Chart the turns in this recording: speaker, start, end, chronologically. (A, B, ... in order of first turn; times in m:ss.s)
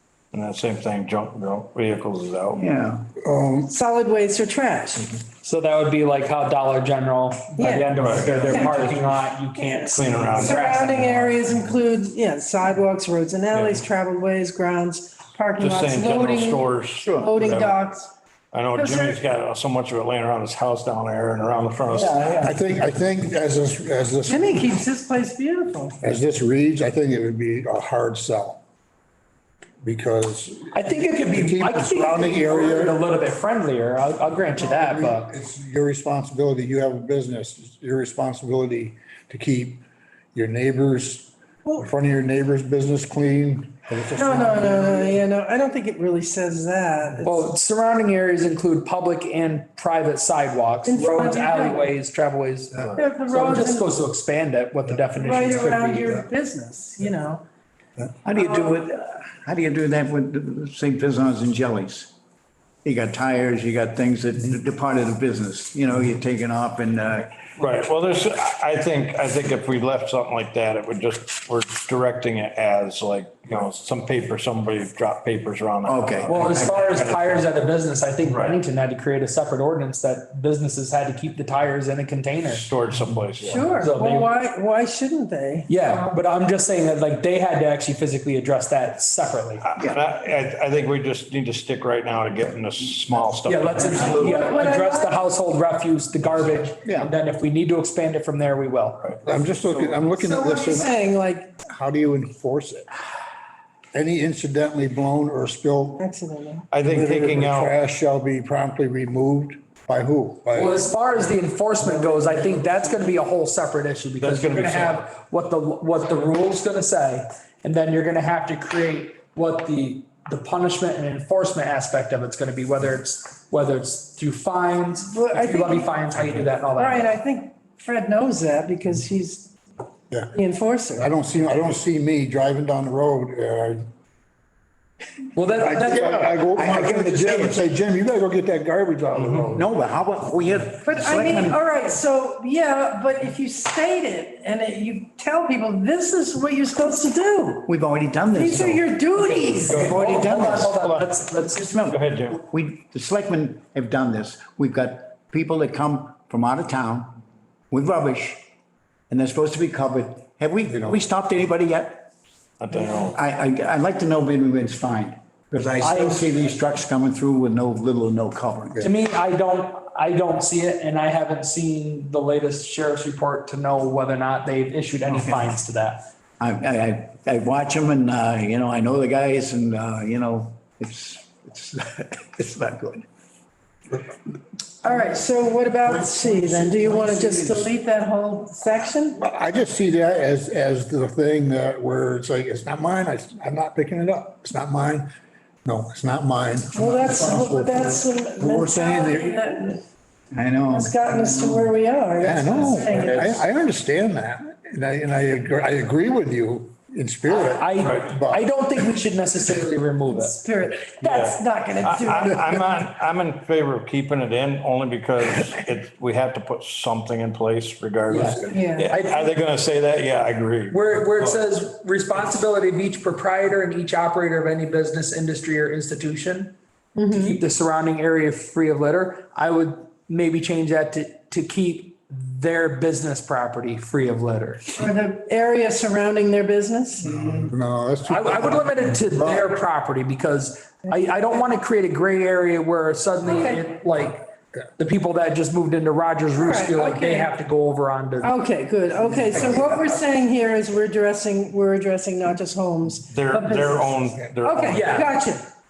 0:00.3-0:02.6 A
0:02.6-0:03.1 B
0:03.2-0:03.7 C
0:03.6-0:05.1 D
0:05.4-0:11.3 E
0:07.6-0:08.0 D
0:08.0-0:09.2 A
0:08.5-0:09.0 D
0:09.6-0:18.1 D
0:09.9-0:10.8 A
0:13.5-0:13.8 A
0:15.6-0:17.8 A
0:17.0-0:17.3 B
0:18.5-0:22.3 A
0:18.7-0:19.2 D
0:21.9-0:22.6 B
0:22.4-0:24.7 C
0:24.2-0:26.0 D
0:26.0-0:28.6 C
0:29.8-0:33.0 C
0:30.7-0:35.4 E
0:34.5-0:45.2 C
0:44.1-0:47.5 D
0:47.2-0:56.2 E
0:50.8-0:51.9 D
0:52.8-0:53.0 A
0:53.0-0:53.9 D
0:54.9-0:55.5 C
0:55.2-0:57.4 D
0:58.2-1:02.1 B
1:02.8-1:07.3 B
1:07.6-1:17.5 A
1:15.8-1:16.8 B
1:16.3-1:22.7 E
1:18.2-1:18.6 A
1:22.4-1:23.7 A
1:23.4-1:26.1 D
1:23.8-1:24.3 E
1:25.7-1:29.6 E
1:29.6-1:34.4 A
1:33.4-1:39.1 E
1:34.0-1:35.2 D
1:36.8-1:37.1 B
1:39.2-1:40.9 C
1:39.7-1:40.8 E
1:40.2-1:41.5 D
1:41.6-1:42.9 C
1:43.9-1:46.0 C
1:46.0-1:46.7 D
1:46.7-1:47.7 A
1:46.8-1:50.8 C
1:50.5-2:07.1 E
1:54.2-1:55.1 A
2:05.1-2:06.1 D
2:06.7-2:09.5 D
2:10.3-2:11.1 D
2:11.0-2:13.8 C
2:15.3-2:16.4 E
2:15.5-2:19.7 C
2:15.9-2:17.6 B
2:19.2-2:21.6 B
2:20.8-2:27.7 D
2:27.6-2:28.9 B
2:28.3-2:30.0 D
2:29.2-2:31.2 A
2:29.7-2:31.7 E
2:29.8-2:30.8 B
2:31.5-2:37.2 B
2:31.8-2:32.4 A
2:37.7-2:38.4 B
2:39.1-2:42.1 B
2:40.7-2:41.0 C
2:42.6-2:43.2 A
2:43.1-2:48.8 B
2:45.8-2:46.3 E
2:48.8-2:56.1 E
2:56.4-3:03.0 B
3:04.8-3:09.2 D
3:06.1-3:07.5 C
3:09.2-3:15.1 C
3:15.6-3:19.6 C
3:16.7-3:19.8 D
3:20.3-3:21.6 B
3:20.7-3:23.4 D
3:22.2-3:28.4 C
3:22.9-3:23.4 B
3:27.2-3:30.4 E
3:30.1-3:32.5 D
3:31.0-3:41.3 A
3:38.1-3:39.3 E
3:38.5-3:38.9 D
3:40.7-3:46.5 E
3:47.0-3:47.4 D
3:47.1-3:54.7 E
3:54.8-3:57.2 D
3:57.2-3:59.5 C
3:58.0-4:08.4 E
4:03.3-4:03.6 D
4:06.3-4:07.3 D
4:08.2-4:15.4 D
4:13.1-4:14.9 A
4:14.7-4:15.2 E